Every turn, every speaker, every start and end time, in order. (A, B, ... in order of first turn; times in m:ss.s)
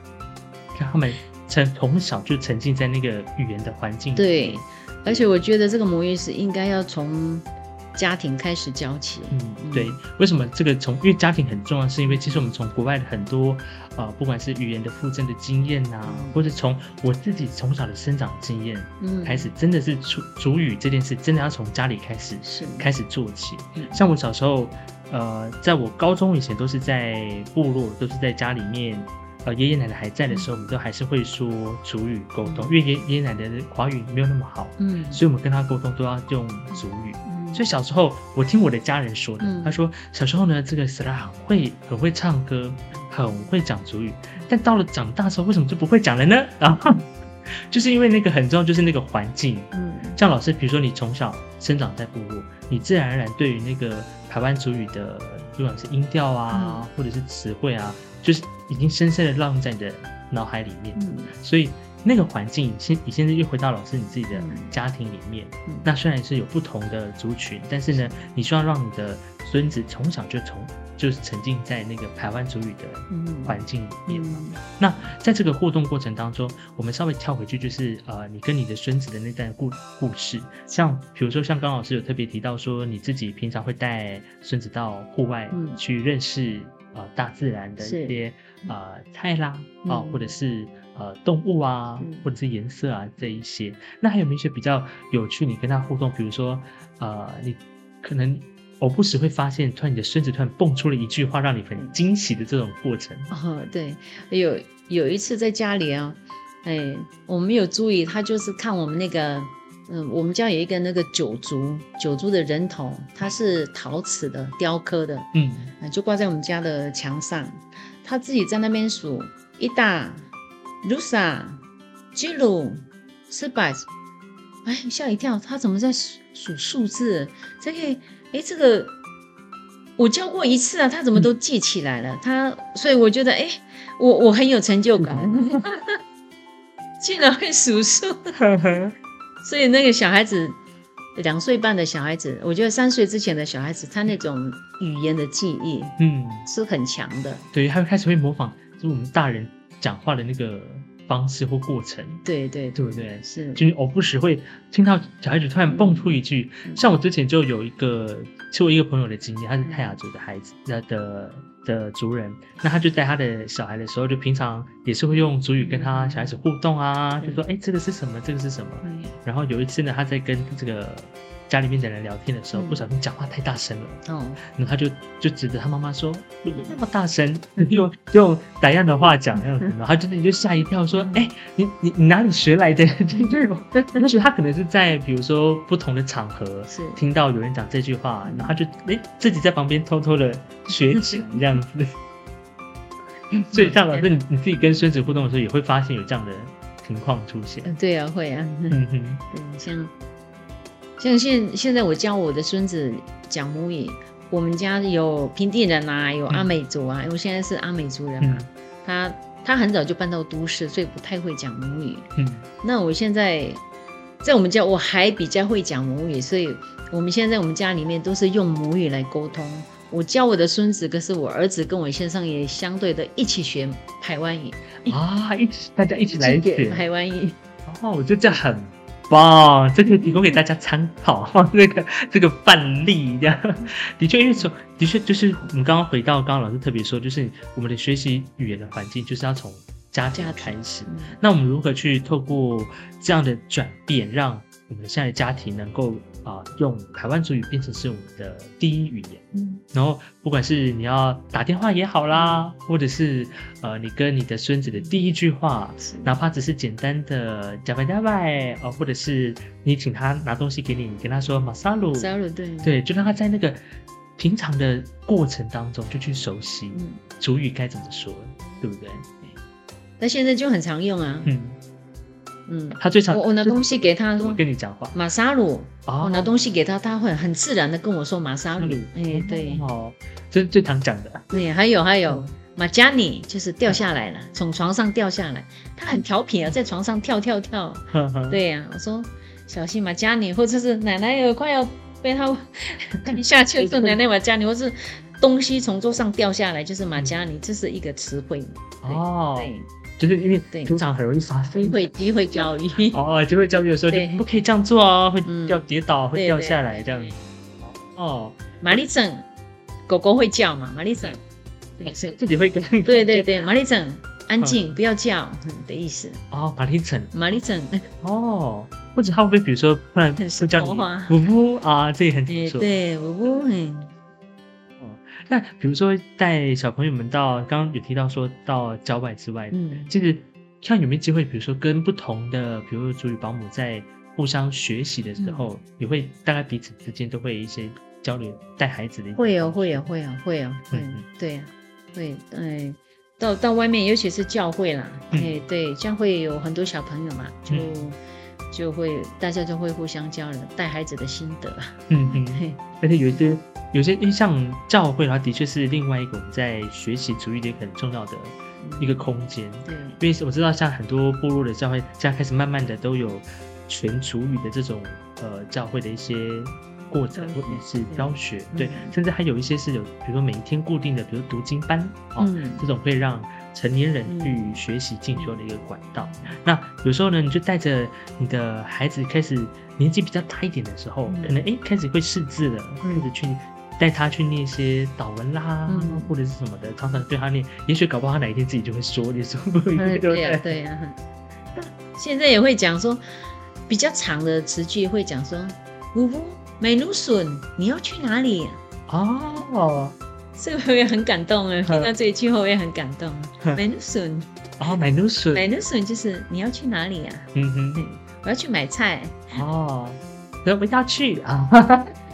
0:00.8-0:05.5 A
0:04.2-0:10.0 B
0:09.3-1:43.3 A
0:12.1-0:12.5 B
0:16.0-0:16.5 B
0:19.0-0:19.5 B
0:22.4-0:22.9 B
0:32.4-0:32.8 B
0:34.8-0:35.2 B
0:36.7-0:37.6 B
0:39.4-0:39.8 B
0:49.7-0:50.2 B
0:56.5-0:56.8 B
1:01.0-1:01.3 B
1:04.3-1:04.7 B
1:07.9-1:08.2 B
1:13.1-1:14.6 B
1:25.5-1:25.8 B
1:27.8-1:28.7 B
1:29.8-1:30.3 B
1:32.0-1:32.3 B
1:43.3-2:00.3 B
1:55.3-1:55.7 A
2:00.8-2:03.9 B
2:04.6-2:09.0 B
2:10.0-2:16.0 B
2:15.0-2:15.3 A
2:17.0-2:18.4 B
2:18.4-2:19.0 A
2:19.4-2:20.6 B
2:21.2-2:27.5 B
2:26.0-2:26.5 A
2:27.5-2:32.2 A
2:32.2-2:33.6 B
2:32.8-3:11.9 A
2:35.7-2:36.8 B
2:39.6-2:40.0 B
2:45.6-2:46.4 B
2:48.8-2:49.2 B
2:52.5-2:52.8 B
2:54.0-2:54.4 B
3:00.9-3:01.3 B
3:06.7-3:07.0 B
3:08.2-3:08.5 B
3:10.7-3:11.4 B
3:13.3-3:14.1 B
3:13.5-3:17.7 A
3:17.6-3:19.9 B
3:18.7-3:19.2 A
3:21.0-3:33.6 B
3:26.3-3:26.6 A
3:28.2-3:28.5 A
3:32.2-3:32.5 A
3:34.2-3:45.0 B
3:44.9-3:46.9 A
3:46.1-3:47.4 B
3:47.7-4:23.6 A
4:00.2-4:01.2 B
4:09.3-4:09.6 B
4:12.1-4:12.5 B
4:15.8-4:16.1 B
4:21.9-4:23.0 B
4:24.2-4:29.1 A
4:26.7-4:27.0 B
4:30.0-4:31.3 B
4:31.2-4:31.6 A
4:32.5-4:39.6 B
4:32.8-4:35.0 A
4:35.9-4:36.3 A
4:38.6-4:41.3 A
4:41.3-4:59.7 B
4:47.9-4:48.4 A
4:53.1-4:54.0 A
4:58.8-5:01.8 A
5:00.5-5:00.8 B
5:01.6-5:03.0 B
5:02.9-5:08.4 A
5:03.9-5:04.3 B
5:05.2-5:06.8 B
5:08.6-5:09.3 B
5:09.9-5:11.2 B
5:11.8-5:12.2 B
5:11.8-5:13.5 A
5:12.8-5:16.2 B
5:16.3-5:17.1 A
5:17.1-5:17.9 B
5:18.0-5:22.8 A
5:20.2-5:21.2 B
5:22.3-5:23.9 B
5:24.8-5:39.9 A
5:29.5-5:29.9 B
5:35.2-5:35.5 B
5:39.2-5:48.0 B
5:40.7-5:41.1 A
5:48.5-5:52.6 B
5:51.9-6:30.6 A
5:58.6-5:59.0 B
5:59.6-6:00.0 B
6:07.2-6:09.0 B
6:12.2-6:12.7 B
6:14.1-6:14.4 B
6:21.1-6:21.4 B
6:22.8-6:23.1 B
6:25.7-6:26.1 B
6:29.8-6:31.0 B
6:31.9-6:33.0 B
6:33.7-6:38.6 B
6:38.9-6:40.0 A
6:40.4-6:44.3 B
6:41.6-6:41.9 A
6:44.6-6:45.5 A
6:45.3-6:49.4 B
6:47.3-6:47.8 A
6:49.3-6:52.0 A